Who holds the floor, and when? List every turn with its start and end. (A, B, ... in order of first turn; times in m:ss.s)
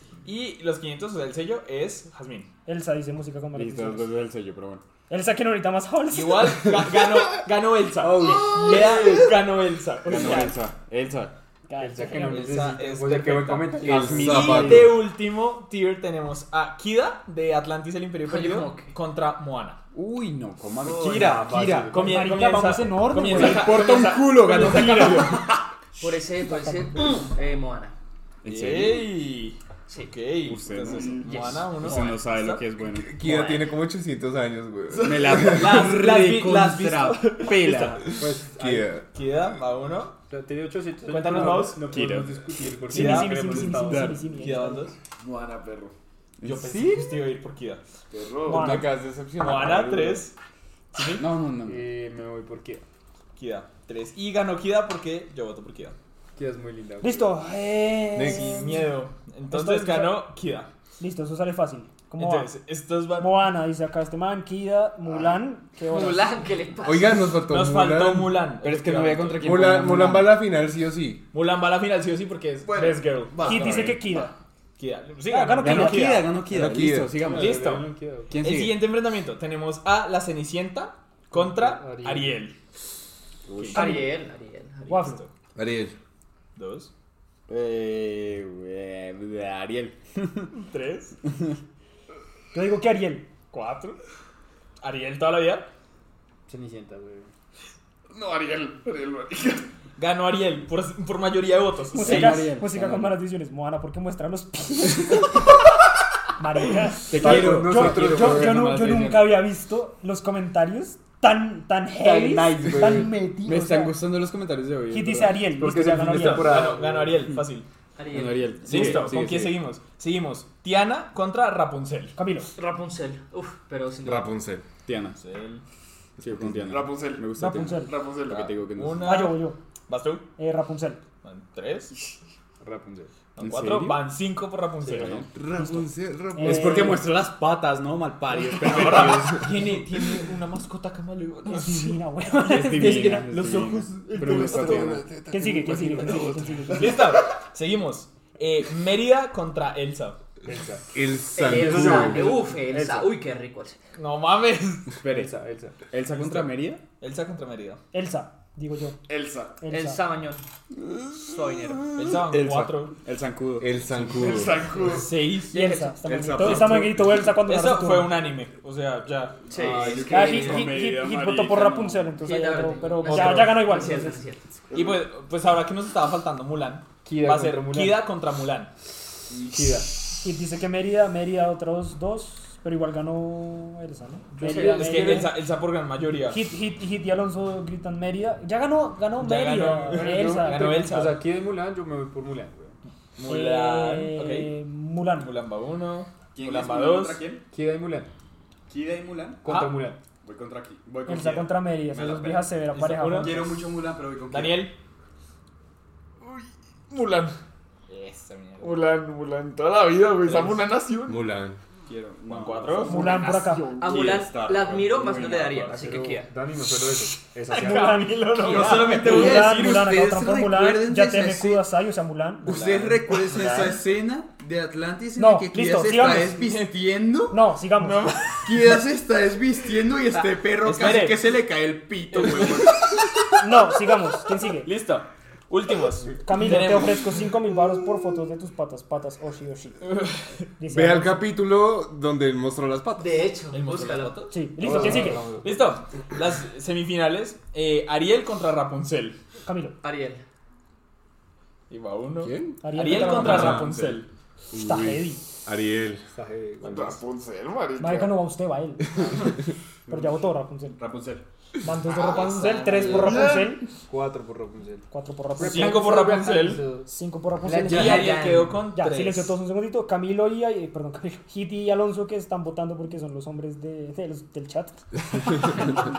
0:00.2-0:02.5 A
0:02.7-0:04.2 B
0:03.5-0:04.8 C
0:05.1-0:06.6 B
0:06.1-0:10.5 A
0:08.0-0:08.8 C
0:08.2-0:08.6 D
0:08.6-0:09.0 E
0:10.0-0:11.3 C
0:10.1-0:10.5 B
0:11.7-0:12.6 B
0:11.8-0:14.9 D
0:12.3-0:19.8 A
0:13.8-0:15.0 F
0:14.2-0:14.9 C
0:18.2-0:18.9 G
0:19.9-0:22.2 C
0:20.8-0:21.4 G
0:21.0-0:22.3 D
0:21.9-0:25.4 A
0:21.9-0:23.8 B
0:23.2-0:25.5 C
0:26.0-0:28.0 G
0:26.5-0:27.1 B
0:28.4-0:29.1 C
0:28.5-0:32.6 A
0:29.9-0:30.1 G
0:30.4-0:33.2 C
0:30.9-0:31.5 E
0:31.3-0:32.0 G
0:32.9-0:35.8 F
0:33.2-0:33.7 G
0:34.9-0:38.1 C
0:35.4-0:38.0 A
0:38.1-0:38.9 D
0:38.5-0:39.0 F
0:39.1-0:40.2 A
0:40.3-0:44.6 D
0:41.1-0:41.8 A
0:41.8-0:42.4 C
0:42.9-0:44.9 B
0:42.9-0:44.9 A
0:43.8-0:44.2 C
0:45.2-0:45.9 E
0:46.4-0:47.1 C
0:46.4-0:47.8 A
0:48.1-0:48.9 E
0:48.5-0:48.8 B
0:48.5-0:49.6 C
0:49.4-0:50.4 A
0:49.5-0:50.2 E
0:50.9-0:51.2 A
0:51.1-0:51.9 C
0:51.6-0:52.8 D
0:53.4-0:56.0 A
0:56.4-0:57.3 D
0:57.0-0:58.9 B
0:58.1-0:58.7 F
0:58.2-1:00.7 A
0:59.5-1:00.2 B
1:01.0-1:02.5 B
1:02.2-1:03.5 A
1:03.2-1:06.2 B
1:05.9-1:07.4 G
1:06.8-1:08.4 F
1:07.5-1:09.6 A
1:08.6-1:10.4 C
1:09.4-1:11.2 F
1:11.3-1:14.3 A
1:12.7-1:14.0 C
1:13.4-1:14.3 B
1:14.8-1:16.3 A
1:15.3-1:16.2 B
1:15.6-1:17.7 C
1:16.5-1:17.1 F
1:17.2-1:18.4 D
1:17.3-1:17.9 A
1:18.3-1:18.8 C
1:18.4-1:22.6 A
1:21.3-1:22.4 D
1:23.5-1:23.9 A
1:23.7-1:25.2 G
1:23.7-1:24.1 B
1:24.9-1:25.2 B
1:25.0-1:25.3 A
1:25.6-1:26.0 F
1:26.6-1:26.9 A
1:27.5-1:30.0 C
1:30.5-1:31.2 A
1:32.5-1:33.3 B
1:33.5-1:34.0 A
1:34.8-1:35.7 A
1:36.5-1:37.3 D
1:38.1-1:39.7 E
1:40.0-1:42.5 A
1:41.9-1:45.4 B
1:42.0-1:43.2 D
1:46.4-1:54.0 B
1:47.1-1:49.3 C
1:47.1-1:48.8 D
1:52.0-1:53.3 D
1:53.3-1:55.5 C
1:54.9-1:56.6 B
1:55.5-1:57.3 D
1:56.1-1:57.7 A
1:58.0-1:58.8 G
1:58.1-1:59.5 C
1:58.7-2:02.2 A
1:58.7-1:59.5 D
2:02.2-2:02.6 B
2:02.6-2:04.3 G
2:04.0-2:04.6 F
2:04.8-2:05.2 C
2:05.2-2:05.6 A
2:06.2-2:09.1 C
2:06.6-2:08.6 E
2:07.4-2:08.0 B
2:08.8-2:10.3 A
2:09.0-2:09.6 B
2:10.4-2:11.0 B
2:11.2-2:12.0 A
2:12.6-2:14.0 C
2:13.4-2:15.2 A
2:14.8-2:15.1 D
2:14.9-2:15.4 C
2:15.4-2:16.9 F
2:16.4-2:17.2 B
2:16.4-2:19.6 C
2:18.5-2:22.0 A
2:21.5-2:23.2 B
2:22.5-2:25.1 C
2:22.5-2:24.9 A
2:24.7-2:26.6 F
2:25.3-2:27.1 B
2:26.8-2:30.2 A
2:30.4-2:30.8 D
2:30.9-2:32.3 F
2:31.4-2:33.8 G
2:31.4-2:33.2 D
2:34.0-2:35.0 A
2:35.0-2:35.4 C
2:35.0-2:35.9 D
2:35.9-2:36.8 C
2:36.1-2:37.8 A
2:37.9-2:39.0 B
2:39.1-2:39.6 E
2:39.6-2:40.0 B
2:39.7-2:40.4 G
2:41.2-2:41.9 G
2:42.0-2:43.0 A
2:42.1-2:43.7 C
2:43.6-2:44.6 F
2:44.2-2:45.2 E
2:44.9-2:46.8 A
2:45.5-2:48.2 B
2:46.0-2:47.2 C
2:47.3-2:49.4 A
2:49.5-2:50.7 G
2:49.6-2:50.0 D
2:49.6-2:51.6 C
2:49.7-2:51.9 E
2:50.1-2:54.2 B
2:52.2-2:54.4 G
2:53.0-2:53.6 A
2:54.7-2:55.0 E
2:54.7-2:58.7 A
2:57.0-2:58.1 D
2:59.3-2:59.7 C
2:59.5-2:59.9 D
3:00.2-3:05.4 B
3:04.4-3:05.3 D
3:04.4-3:05.0 G
3:04.6-3:06.4 A
3:06.3-3:11.0 B
3:09.2-3:11.2 A
3:09.9-3:12.8 D
3:13.2-3:14.6 A
3:13.2-3:15.3 B
3:15.2-3:17.2 A
3:16.4-3:17.4 C
3:17.5-3:18.1 D
3:18.7-3:19.4 C
3:19.4-3:20.0 D
3:19.5-3:19.9 A
3:20.2-3:22.5 C
3:21.1-3:23.6 B
3:22.7-3:23.5 A
3:23.1-3:24.7 C
3:24.3-3:24.8 A
3:26.2-3:27.4 E
3:27.9-3:28.9 A
3:28.6-3:31.3 E
3:30.2-3:30.7 A
3:31.1-3:31.6 F
3:31.9-3:33.1 C
3:32.3-3:33.3 A
3:32.8-3:34.2 E
3:32.8-3:33.7 B
3:33.8-3:36.3 G
3:33.8-3:35.8 C
3:35.7-3:38.3 D
3:37.5-3:39.6 A
3:37.5-3:42.6 B
3:38.4-3:41.7 C
3:42.4-3:47.5 C
3:42.4-3:43.8 A
3:45.2-3:46.4 B
3:46.4-3:46.7 A
3:47.3-3:48.2 B
3:47.8-3:48.8 A
3:48.4-3:53.1 C
3:50.2-3:51.3 A
3:52.1-3:53.0 A
3:53.4-3:54.7 B
3:54.6-3:57.3 A
3:56.2-3:59.9 B
3:59.9-4:00.2 A
4:00.6-4:01.2 B
4:00.7-4:03.3 F
4:03.0-4:04.3 G
4:03.5-4:09.2 A
4:04.3-4:05.2 B
4:04.6-4:05.7 D
4:09.4-4:09.8 B
4:09.8-4:10.2 G
4:11.7-4:14.1 A
4:12.2-4:12.6 F
4:12.6-4:13.7 B
4:13.2-4:13.7 F
4:13.6-4:13.9 C
4:14.5-4:16.0 F
4:14.6-4:15.2 B
4:16.1-4:17.0 D
4:16.6-4:18.2 E
4:17.8-4:19.3 B
4:19.9-4:20.8 B
4:20.8-4:21.2 C
4:21.6-4:23.7 B
4:21.9-4:23.7 E
4:22.0-4:23.1 G
4:23.9-4:28.5 D
4:24.9-4:26.1 B
4:25.4-4:26.7 A
4:26.9-4:28.2 B
4:27.7-4:29.4 A
4:27.8-4:28.4 G
4:28.7-4:34.8 B